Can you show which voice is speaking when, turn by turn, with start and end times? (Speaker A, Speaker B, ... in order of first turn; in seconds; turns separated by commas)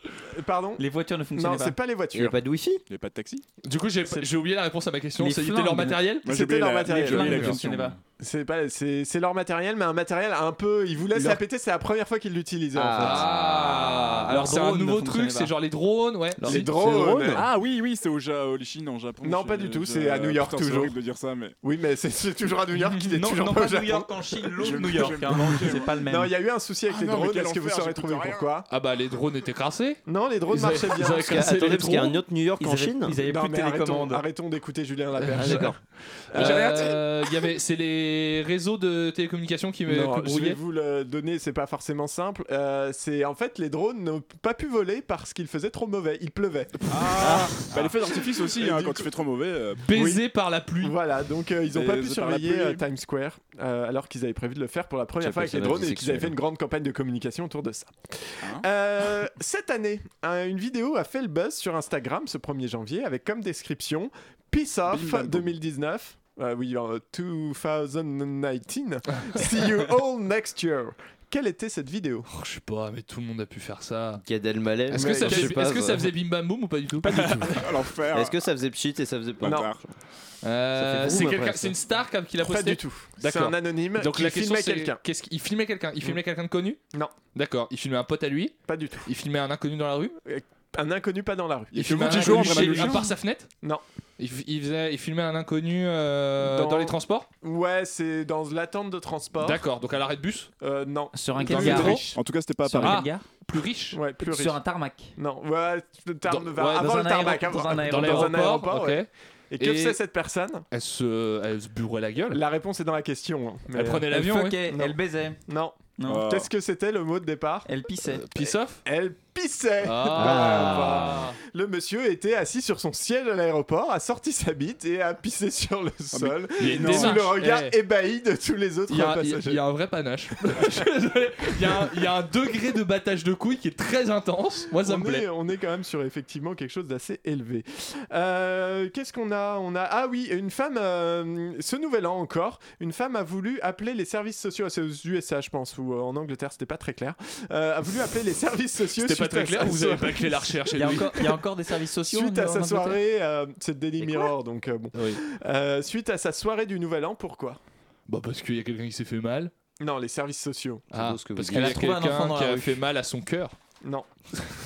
Speaker A: 0.3-0.8, Speaker B: 0.8-1.8, Speaker A: 1.3-2.4, Speaker C: 2.1-2.8, Speaker D: 2.9-3.4, Speaker E: 3.6-6.2, Speaker B: 5.2-6.1, Speaker D: 6.2-8.0, Speaker A: 6.2-7.5, Speaker B: 6.9-8.0, Speaker E: 7.2-7.5, Speaker A: 8.2-13.3, Speaker C: 12.7-13.3, Speaker E: 13.0-16.7, Speaker B: 13.3-15.5, Speaker A: 16.4-17.5, Speaker D: 16.8-21.6, Speaker A: 19.2-20.9, Speaker A: 21.6-24.1, Speaker B: 22.9-26.3, Speaker D: 24.6-25.9, Speaker A: 26.1-28.7, Speaker D: 26.9-28.5, Speaker E: 28.7-32.2, Speaker A: 30.1-31.5, Speaker C: 31.0-33.2, Speaker B: 32.6-34.2, Speaker A: 33.2-35.8, Speaker E: 35.2-35.7, Speaker C: 35.4-35.8, Speaker A: 36.3-37.0, Speaker E: 36.3-40.6, Speaker A: 39.9-47.9, Speaker D: 46.9-49.8, Speaker A: 48.5-49.1, Speaker E: 49.8-50.9, Speaker A: 49.9-50.2, Speaker A: 50.8-72.3, Speaker D: 51.7-52.8, Speaker C: 55.2-56.3, Speaker D: 64.9-65.5, Speaker E: 72.3-74.2, Speaker C: 74.2-76.1, Speaker E: 74.9-77.6, Speaker A: 74.9-75.6, Speaker D: 77.0-78.4, Speaker C: 78.1-79.8, Speaker D: 79.4-79.8, Speaker A: 79.4-79.7, Speaker E: 80.4-86.8, Speaker C: 80.8-81.8, Speaker A: 82.4-85.0, Speaker E: 87.3-90.2, Speaker A: 88.7-89.1, Speaker A: 90.2-92.9, Speaker E: 91.7-93.5, Speaker D: 91.8-93.1, Speaker E: 94.2-97.3, Speaker A: 96.4-99.6, Speaker E: 99.4-100.5, Speaker A: 100.6-102.2, Speaker B: 101.1-103.2, Speaker E: 101.4-102.0, Speaker D: 101.5-103.0, Speaker E: 102.8-104.0, Speaker A: 103.9-104.6, Speaker B: 104.2-105.1, Speaker A: 105.2-110.7, Speaker E: 106.3-109.1, Speaker B: 106.7-108.5, Speaker E: 109.6-110.0, Speaker E: 110.7-112.4, Speaker A: 112.3-114.1, Speaker E: 113.7-114.6, Speaker B: 114.1-115.4, Speaker A: 114.7-117.7, Speaker B: 116.0-116.3, Speaker D: 116.0-116.5, Speaker B: 117.7-118.2, Speaker E: 118.1-118.8, Speaker A: 118.8-129.6, Speaker E: 119.8-121.4, Speaker D: 126.1-127.3, Speaker E: 126.6-127.7, Speaker E: 128.9-135.3, Speaker A: 134.8-150.9, Speaker E: 149.0-151.3, Speaker B: 150.7-153.0, Speaker A: 152.1-157.6, Speaker E: 154.9-155.2, Speaker E: 158.1-159.5, Speaker A: 159.8-160.8, Speaker C: 160.9-161.8, Speaker E: 160.9-163.5, Speaker B: 161.5-162.8, Speaker A: 163.8-164.1